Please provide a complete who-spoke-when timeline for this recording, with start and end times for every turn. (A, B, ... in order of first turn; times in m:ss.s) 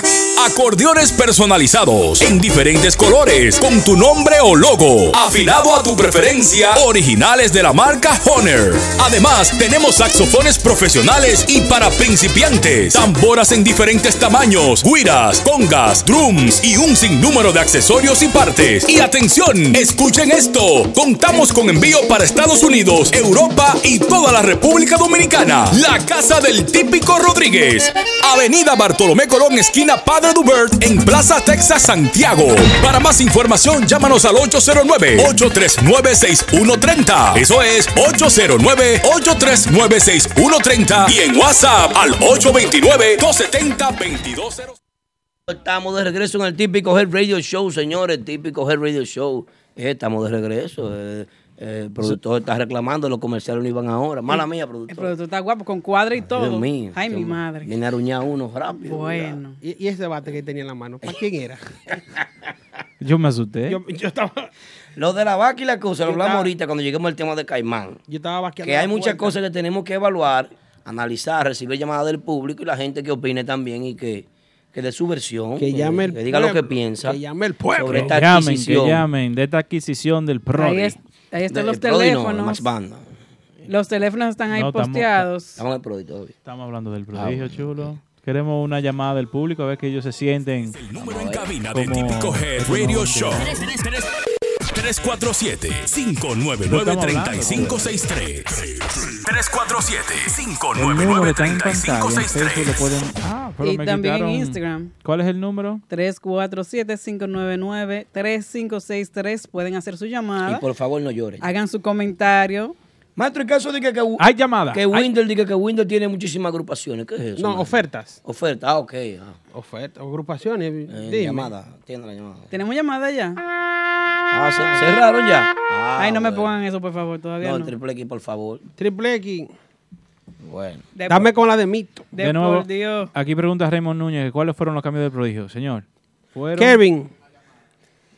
0:00.4-0:44.8 A
0:45.5-0:55.1 B
0:54.9-0:57.7 C
0:56.2-0:59.4 B
0:58.8-0:59.6 C
0:59.6-1:02.0 D
1:03.0-1:03.8 E
1:03.7-1:04.5 D
1:05.0-1:08.0 B
1:06.0-1:06.5 D
1:08.1-1:09.4 D
1:08.6-1:17.2 B
1:15.6-1:18.1 D
1:17.7-1:19.0 B
1:17.9-1:21.0 E
1:20.5-1:22.7 C
1:21.5-1:23.1 B
1:23.7-1:25.6 C
1:24.5-1:25.2 E
1:25.6-1:26.3 B
1:26.4-1:30.8 E
1:27.1-1:27.9 B
1:30.8-1:34.1 A
1:30.9-1:31.5 B
1:31.7-1:33.6 E
1:34.7-1:42.8 A
1:36.7-1:37.9 E
1:40.8-1:45.8 E
1:43.6-1:44.9 C
1:45.9-1:50.6 C
1:50.4-1:51.4 B
1:51.4-1:52.8 C
1:53.2-1:59.4 B
1:54.2-1:55.1 E
1:57.4-1:58.2 D
1:59.5-2:01.5 D
2:00.9-2:02.5 B
2:02.5-2:03.4 C
2:04.3-2:06.5 B
2:06.0-2:07.7 C
2:07.4-2:08.6 B
2:08.8-2:09.5 D
2:10.4-2:10.9 B
2:10.9-2:11.3 C
2:11.1-2:12.1 D
2:12.1-2:13.1 C
2:12.2-2:16.8 E
2:16.6-2:17.1 D